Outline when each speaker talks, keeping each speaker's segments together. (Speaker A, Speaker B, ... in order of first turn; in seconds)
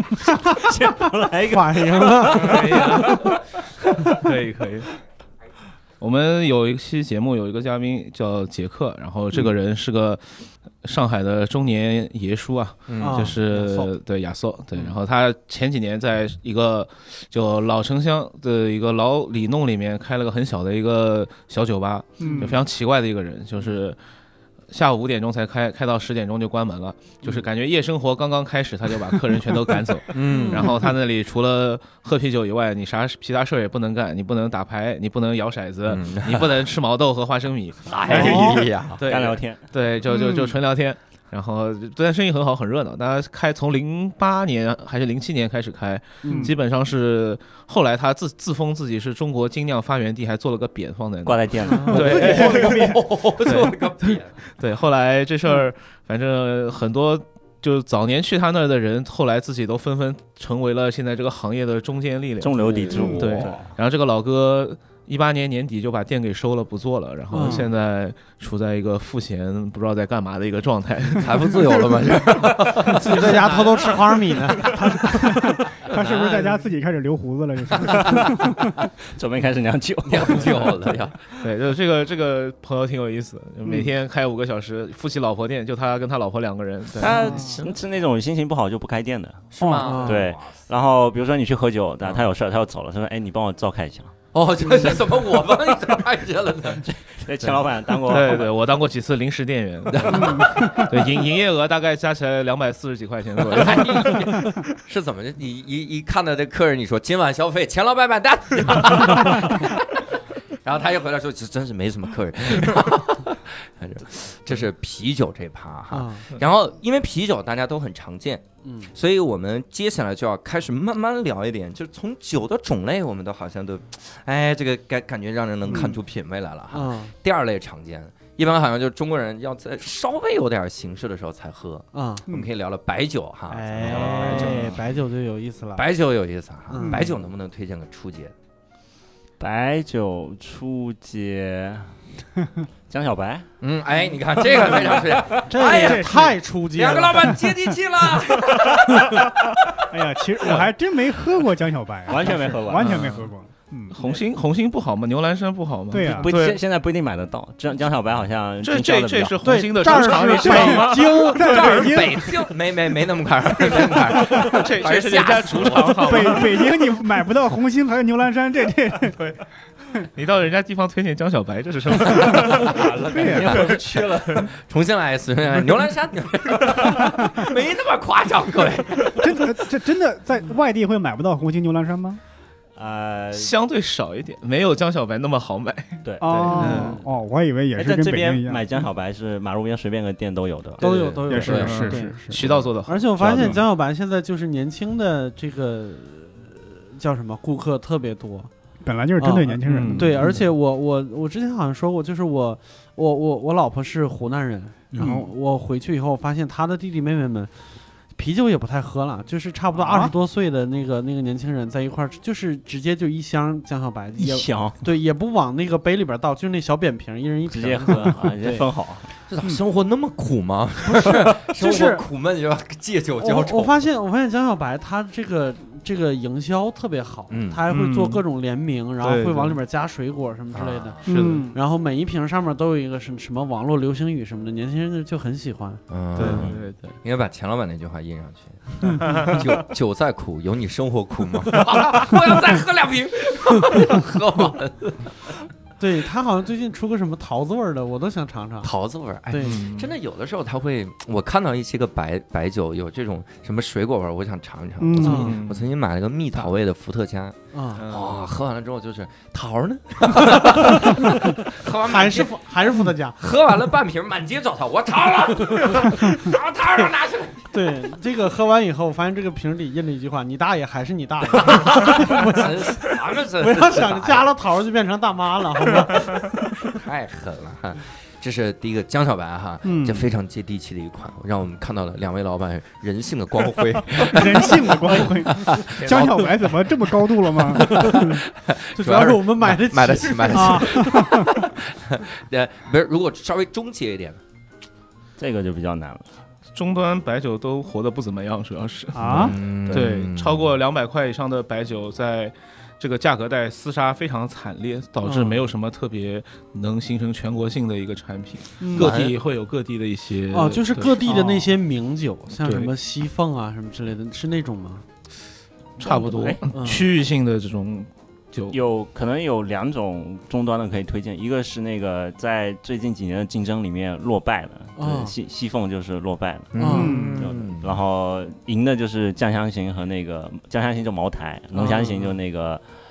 Speaker A: 0.2-3.3, 39.0-39.6, 51.2-52.4, 62.4-63.7, 77.9-78.4, 79.1-80.8, 87.0-94.1, 96.8-98.5, 133.9-134.7, 139.4-141.9, 142.9-143.5, 152.1-153.3, 156.0-159.3, 172.5-174.5, 182.8-183.5, 186.0-187.0, 187.8-191.2, 193.2-193.6, 214.2-214.8, 217.5-219.1, 295.2-296.1, 318.5-332.6
Speaker B: 1.5-3.1, 13.0-13.9, 22.2-22.6, 30.3-30.7, 38.1-38.5, 46.2-46.5, 51.6-52.4, 67.3-67.7, 72.9-76.4, 87.3-87.5, 89.8-90.2, 115.9-116.3, 118.6-118.9, 126.7-127.1, 131.9-132.3, 133.5-135.9, 136.7-137.1, 145.5-147.4, 159.4-161.7, 186.5-187.0, 190.8-198.5, 199.2-207.5, 208.1-218.7, 220.8-222.0, 223.2-236.4, 245.8-248.7, 249.3-249.6, 255.0-255.4, 257.5-257.8, 261.8-263.2, 267.5-276.3, 287.8-288.0, 288.7-290.9, 305.0-305.4, 310.3-314.9, 315.8-316.9, 324.8-325.1, 326.6-327.0, 331.5-332.1
Speaker C: 2.4-3.4, 4.1-4.9, 6.0-24.0, 24.7-71.8, 73.1-74.2, 81.4-87.2, 98.0-104.3, 133.9-134.6, 152.8-153.2, 153.9-156.6, 158.6-161.5, 163.8-166.7, 170.1-172.9, 173.4-174.5, 183.3-187.0, 191.4-193.6, 199.6-200.4, 227.7-228.2, 229.0-229.6, 231.0-231.5, 236.2-237.0, 239.0-239.4, 249.4-249.9, 255.1-255.7, 257.7-258.2, 296.5-311.3, 312.4-312.7, 315.8-318.5
Speaker D: 12.9-13.3, 30.1-30.8, 35.9-36.6, 37.9-39.0, 51.9-54.4, 71.2-73.9, 80.0-81.2, 89.5-90.6, 94.3-96.9, 99.9-100.9, 103.5-110.0, 110.6-134.7, 135.7-138.3, 143.6-149.3, 161.3-166.4, 173.3-173.7, 174.4-179.2, 190.8-191.8, 192.4-192.7, 219.3-223.8, 227.3-227.6, 230.5-231.0, 235.9-245.1, 248.6-267.5, 271.4-274.3, 276.6-286.4, 287.5-294.2, 299.1-300.5, 308.8-309.1, 326.5-327.7
Speaker E: 22.2-22.5, 38.1-38.6, 40.1-40.5, 46.3-46.5, 51.9-53.0, 62.9-63.5, 74.6-78.7, 89.6-89.9, 100.1-100.9, 125.7-126.0, 136.8-137.1, 145.6-146.4, 149.9-153.9, 155.9-156.3, 160.1-162.5, 164.1-164.6, 166.0-169.2, 173.1-173.7, 179.1-182.2, 186.2-188.7, 191.3-192.4, 198.8-200.3, 205.0-205.3, 209.7-210.1, 231.1-231.6, 254.8-255.3, 279.6-280.1, 284.0-288.2, 290.3-291.3, 298.9-299.3, 308.6-308.9, 311.1-311.4, 326.7-327.2